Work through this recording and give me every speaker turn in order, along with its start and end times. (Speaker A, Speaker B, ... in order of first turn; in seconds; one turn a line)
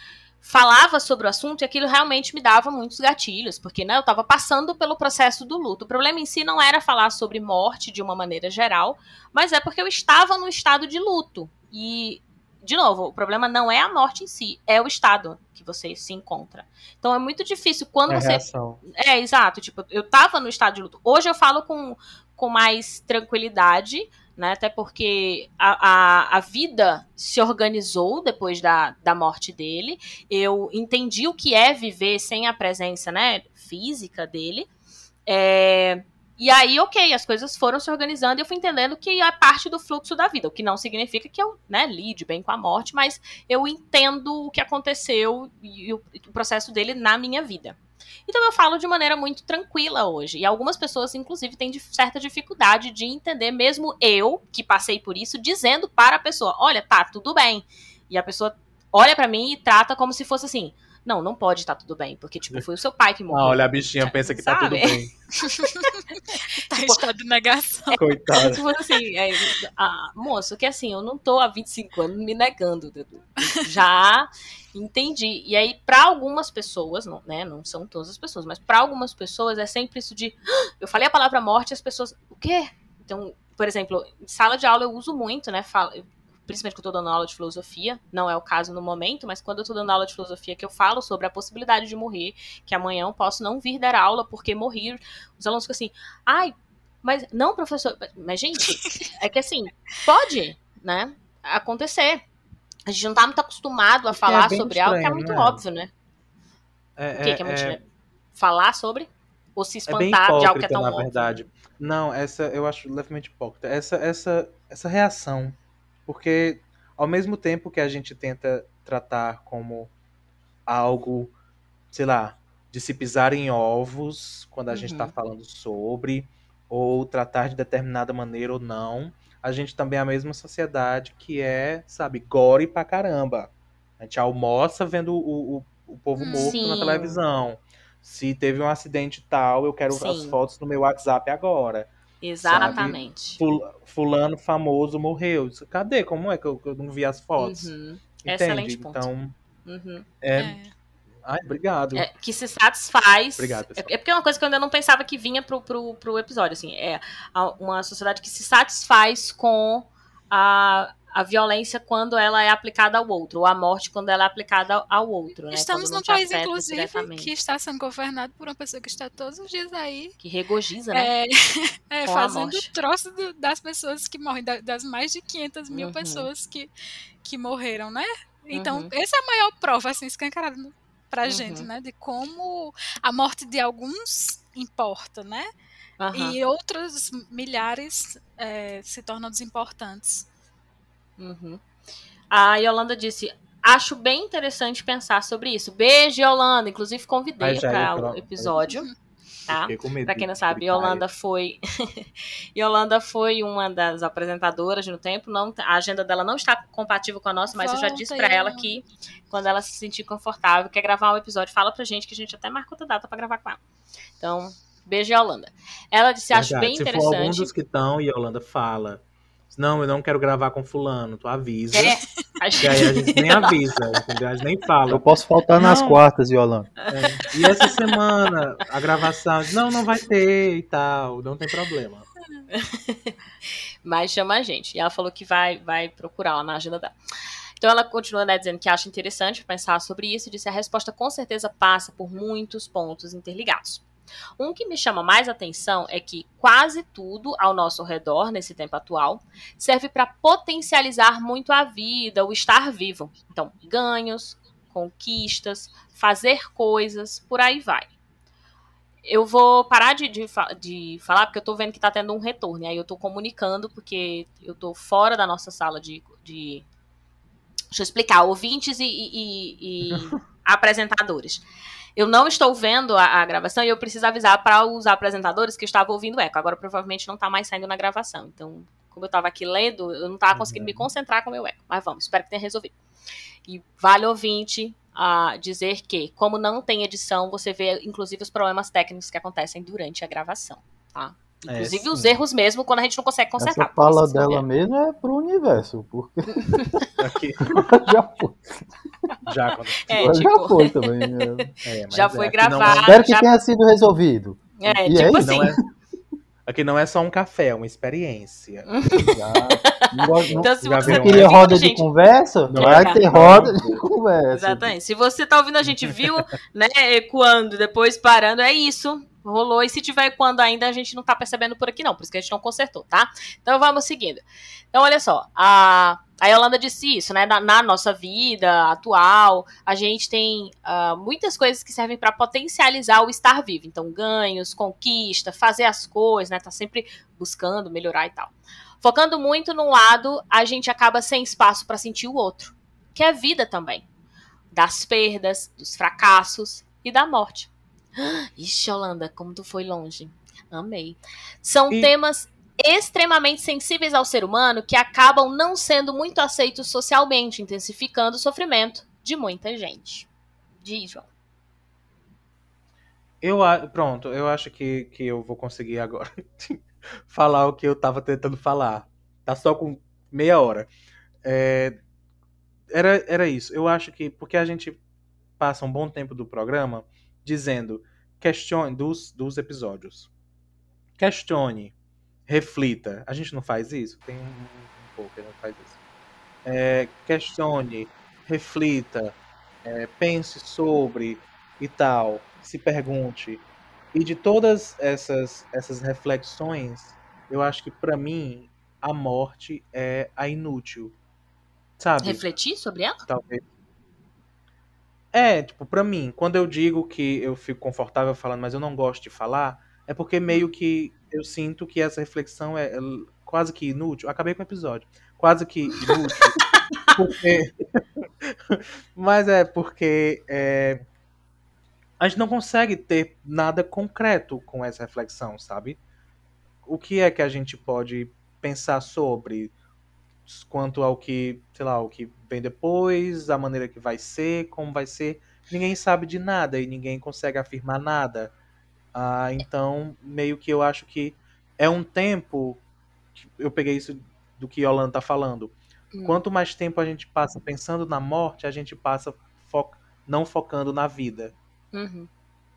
Speaker A: 0.4-34.7
Speaker B: 18.1-18.8
Speaker A: 35.3-65.0
Speaker B: 63.3-65.1
Speaker C: 65.5-68.0
Speaker A: 67.9-102.2
Speaker B: 68.0-68.6
Speaker A: 102.9-105.9
Speaker B: 104.1-105.6
Speaker B: 107.0-107.8
Speaker A: 107.2-107.8
Speaker A: 108.3-111.4
Speaker B: 109.9-119.9
Speaker B: 120.7-121.3
Speaker B: 121.9-141.9
Speaker A: 124.7-125.1
Speaker C: 136.2-136.6
Speaker A: 136.3-137.2
Speaker A: 139.9-140.4
Speaker A: 142.2-143.4
Speaker B: 142.4-149.3
Speaker C: 142.6-142.9
Speaker A: 147.4-149.1
Speaker A: 149.6-150.1
Speaker B: 150.2-150.6
Speaker C: 150.3-150.7
Speaker B: 151.2-152.1
Speaker A: 151.9-167.3
Speaker B: 153.4-153.9
Speaker C: 165.5-170.1
Speaker A: 170.2-171.1
Speaker C: 170.9-176.7
Speaker A: 172.1-172.7
Speaker A: 175.7-176.3
Speaker C: 177.2-185.5
Speaker A: 178.5-178.9
Speaker A: 181.2-181.7
Speaker A: 186.0-186.3
Speaker C: 186.1-190.2
Speaker A: 191.2-191.6
Speaker A: 192.3-198.9
Speaker B: 197.4-198.6
Speaker B: 199.5-201.1
Speaker A: 199.5-213.6
Speaker C: 207.5-208.6
Speaker A: 214.2-217.5
Speaker B: 216.3-222.0
Speaker A: 221.7-223.5
Speaker B: 222.6-225.1
Speaker D: 224.9-226.7
Speaker B: 225.6-226.0
Speaker A: 226.9-227.7
Speaker B: 226.9-232.1
Speaker A: 232.5-233.1
Speaker A: 233.8-236.9
Speaker A: 237.6-243.8
Speaker A: 244.4-257.9
Speaker A: 259.0-266.6
Speaker A: 267.7-271.4
Speaker A: 271.9-282.7
Speaker B: 280.3-280.9
Speaker A: 283.4-294.4
Speaker B: 291.5-292.2
Speaker D: 293.4-296.8
Speaker A: 296.4-296.7
Speaker B: 297.0-297.7
Speaker D: 297.5-298.7
Speaker B: 299.2-300.2
Speaker A: 299.9-303.3
Speaker D: 299.9-301.5
Speaker B: 301.6-303.0
Speaker D: 302.8-305.6
Speaker A: 304.6-305.5
Speaker B: 305.2-305.6
Speaker B: 306.4-308.7
Speaker A: 308.7-311.9
Speaker D: 309.1-314.7
Speaker B: 310.3-311.5
Speaker B: 312.5-313.8
Speaker A: 312.6-313.4
Speaker A: 314.3-343.8
Speaker A: 344.5-360.1
Speaker A: 360.6-361.0
Speaker B: 363.2-370.7
Speaker B: 371.2-371.8
Speaker B: 372.7-374.8
Speaker B: 375.4-380.1
Speaker B: 381.0-381.7
Speaker B: 382.3-385.8
Speaker B: 386.4-393.4
Speaker B: 393.9-400.9
Speaker B: 401.8-402.2
Speaker A: 402.0-403.0
Speaker B: 403.1-403.4
Speaker B: 405.1-416.4
Speaker A: 416.5-416.9
Speaker B: 416.9-420.8
Speaker B: 422.0-425.8
Speaker B: 426.6-429.5
Speaker B: 430.3-438.3
Speaker B: 438.9-442.6
Speaker B: 443.2-451.3
Speaker A: 445.9-446.2
Speaker A: 451.7-452.1